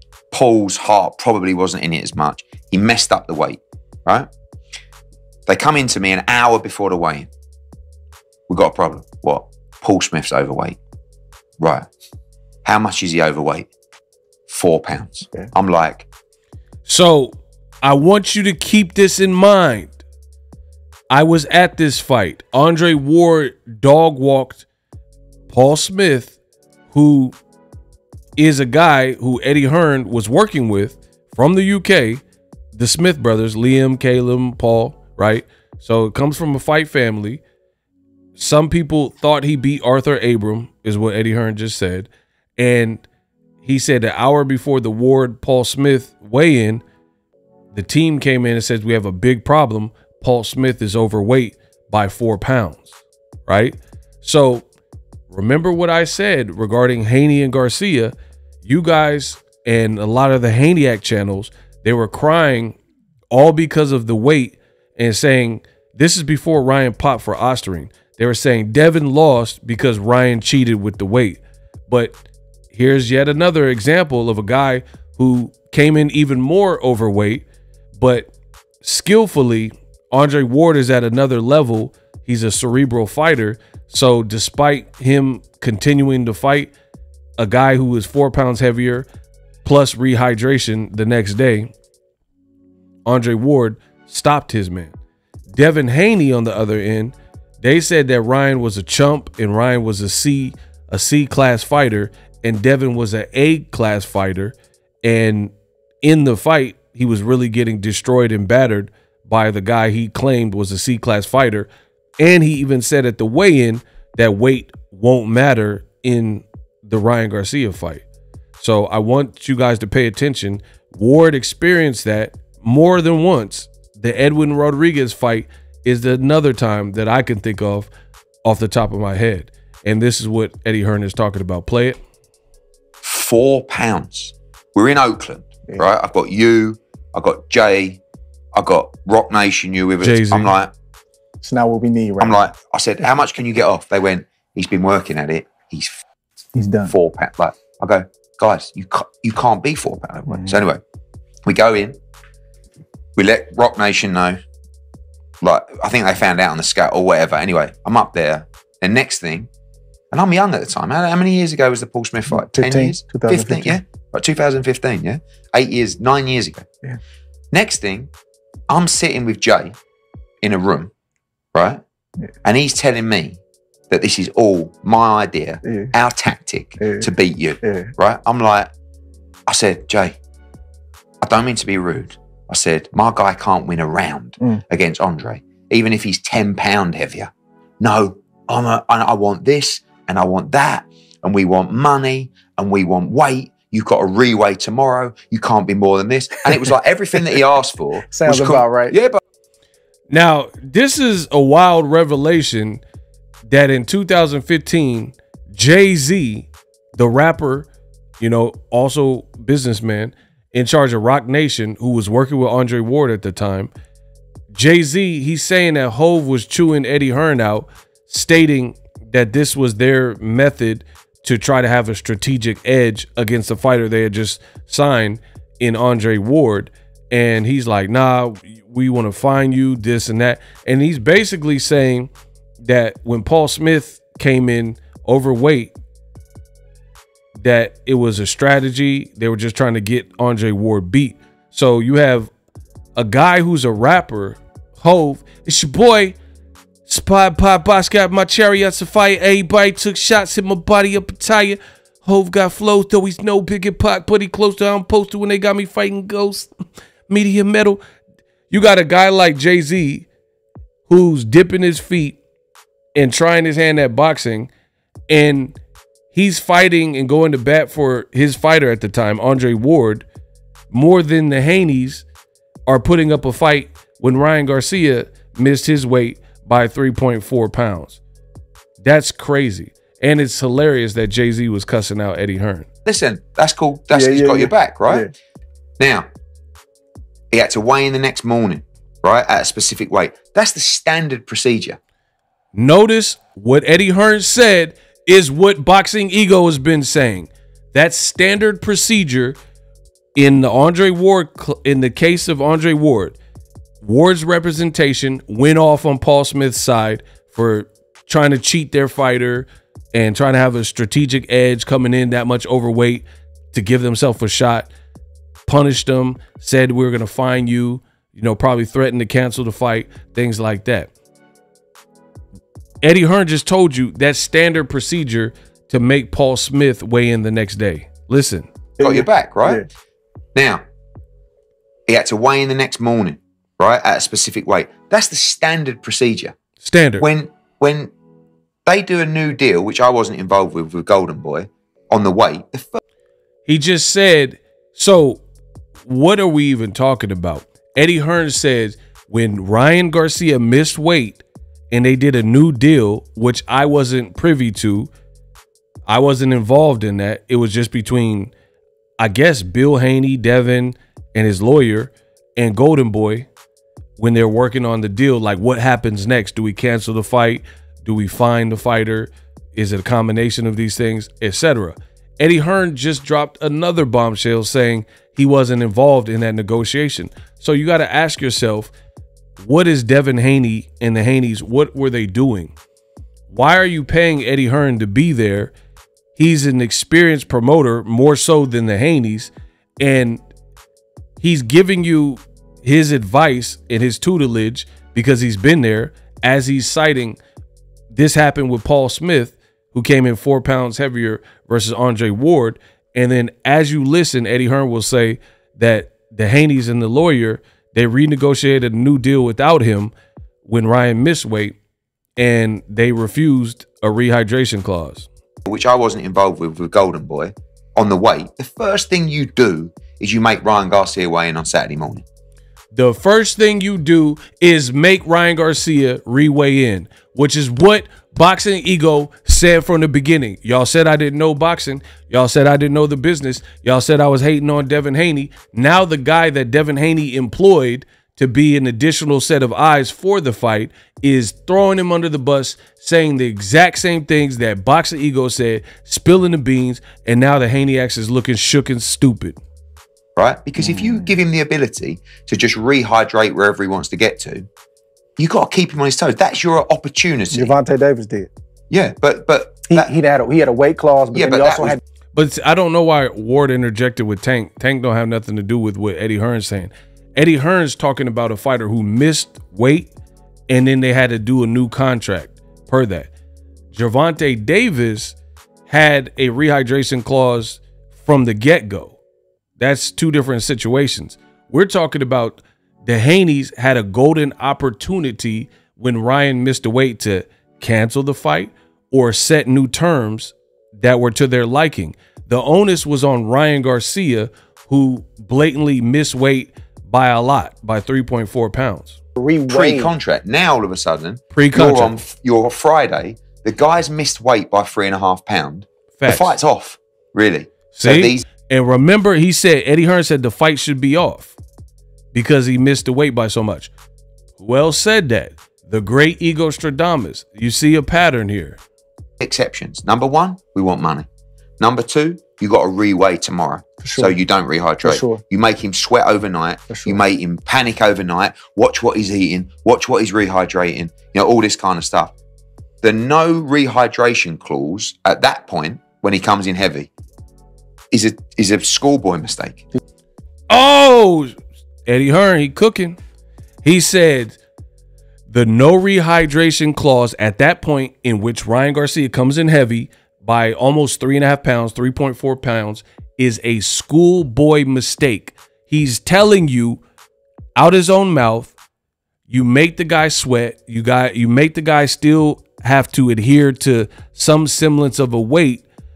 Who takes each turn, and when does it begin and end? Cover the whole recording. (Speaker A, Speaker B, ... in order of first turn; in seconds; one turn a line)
Speaker A: 0.3-4.3
Speaker A: 5.5-7.3
Speaker A: 8.5-10.8
Speaker A: 11.6-11.9
Speaker A: 12.6-13.7
Speaker A: 14.5-16.1
Speaker B: 16.9-20.0
Speaker B: 21.1-24.6
Speaker B: 25.5-26.4
Speaker B: 26.9-27.3
Speaker B: 28.4-32.2
Speaker B: 32.7-37.4
Speaker B: 38.4-43.0
Speaker B: 43.6-46.8
Speaker B: 47.7-52.9
Speaker B: 53.5-54.6
Speaker B: 55.3-58.1
Speaker B: 58.6-62.8
Speaker B: 63.3-72.2
Speaker B: 72.7-78.3
Speaker B: 78.8-86.7
Speaker B: 87.4-89.1
Speaker B: 89.6-91.7
Speaker B: 93.0-94.9
Speaker B: 95.5-111.7
Speaker B: 112.2-118.0
Speaker B: 118.6-127.9
Speaker B: 128.4-132.0
Speaker A: 133.0-138.0
Speaker A: 138.5-140.7
Speaker B: 140.0-140.5
Speaker C: 141.4-142.4
Speaker A: 142.2-146.0
Speaker C: 146.5-146.9
Speaker A: 146.9-150.8
Speaker A: 151.4-152.0
Speaker A: 153.2-154.4
Speaker A: 155.4-159.5
Speaker A: 160.1-166.7
Speaker C: 162.3-163.8
Speaker A: 167.5-168.1
Speaker A: 168.7-169.8
Speaker A: 170.4-170.9
Speaker A: 171.5-171.8
Speaker A: 172.4-178.7
Speaker C: 175.7-175.9
Speaker C: 176.8-177.1
Speaker C: 177.6-177.9
Speaker A: 179.5-180.2
Speaker A: 181.2-199.2
Speaker C: 198.1-198.9
Speaker B: 200.1-202.8
Speaker B: 203.5-207.7
Speaker B: 208.2-213.7
Speaker B: 214.5-232.1
Speaker B: 232.6-235.7
Speaker B: 237.4-242.3
Speaker B: 242.9-246.2
Speaker B: 246.8-256.5
Speaker B: 257.1-257.8
Speaker B: 258.5-260.1
Speaker B: 260.9-262.2
Speaker B: 262.9-264.5
Speaker B: 265.1-265.6
Speaker B: 266.1-270.1
Speaker B: 270.7-272.0
Speaker B: 272.7-278.0
Speaker B: 278.8-282.7
Speaker A: 282.9-285.1
Speaker C: 283.9-285.1
Speaker A: 285.8-286.1
Speaker A: 287.3-291.8
Speaker B: 292.5-299.4
Speaker B: 300.1-303.2
Speaker B: 303.8-314.7
Speaker B: 315.4-320.9
Speaker B: 322.8-328.5
Speaker C: 328.8-329.6
Speaker A: 328.8-329.6
Speaker A: 330.3-330.6
Speaker A: 331.9-336.4
Speaker B: 336.6-337.1
Speaker A: 337.0-337.9
Speaker A: 338.6-342.8
Speaker B: 343.4-345.2
Speaker B: 345.8-354.9
Speaker B: 355.9-358.3
Speaker B: 359.0-363.3
Speaker B: 364.0-378.7
Speaker B: 379.4-382.5
Speaker B: 383.3-385.5
Speaker B: 386.1-390.2
Speaker B: 391.2-397.2
Speaker B: 397.9-409.9
Speaker B: 410.4-411.6
Speaker B: 412.2-415.1
Speaker A: 415.4-422.0
Speaker B: 422.7-449.4
Speaker A: 450.1-454.5
Speaker C: 450.7-451.0
Speaker A: 455.2-457.6
Speaker C: 457.3-458.3
Speaker A: 458.7-459.9
Speaker C: 459.7-461.8
Speaker A: 461.1-461.8
Speaker B: 462.1-469.9
Speaker B: 470.5-473.1
Speaker B: 473.7-479.0
Speaker B: 479.6-499.0
Speaker C: 499.2-499.9
Speaker A: 499.5-508.3
Speaker B: 501.3-501.9
Speaker B: 505.9-506.3
Speaker B: 507.7-511.3
Speaker B: 512.1-513.7
Speaker B: 514.4-518.6
Speaker A: 519.2-521.1
Speaker A: 521.6-532.1
Speaker C: 523.8-524.1
Speaker C: 524.8-525.2
Speaker C: 526.7-527.0
Speaker A: 532.8-536.9
Speaker A: 537.9-539.6
Speaker B: 540.5-543.0
Speaker B: 543.6-544.4
Speaker B: 545.3-556.8
Speaker B: 557.5-558.5
Speaker B: 559.3-565.6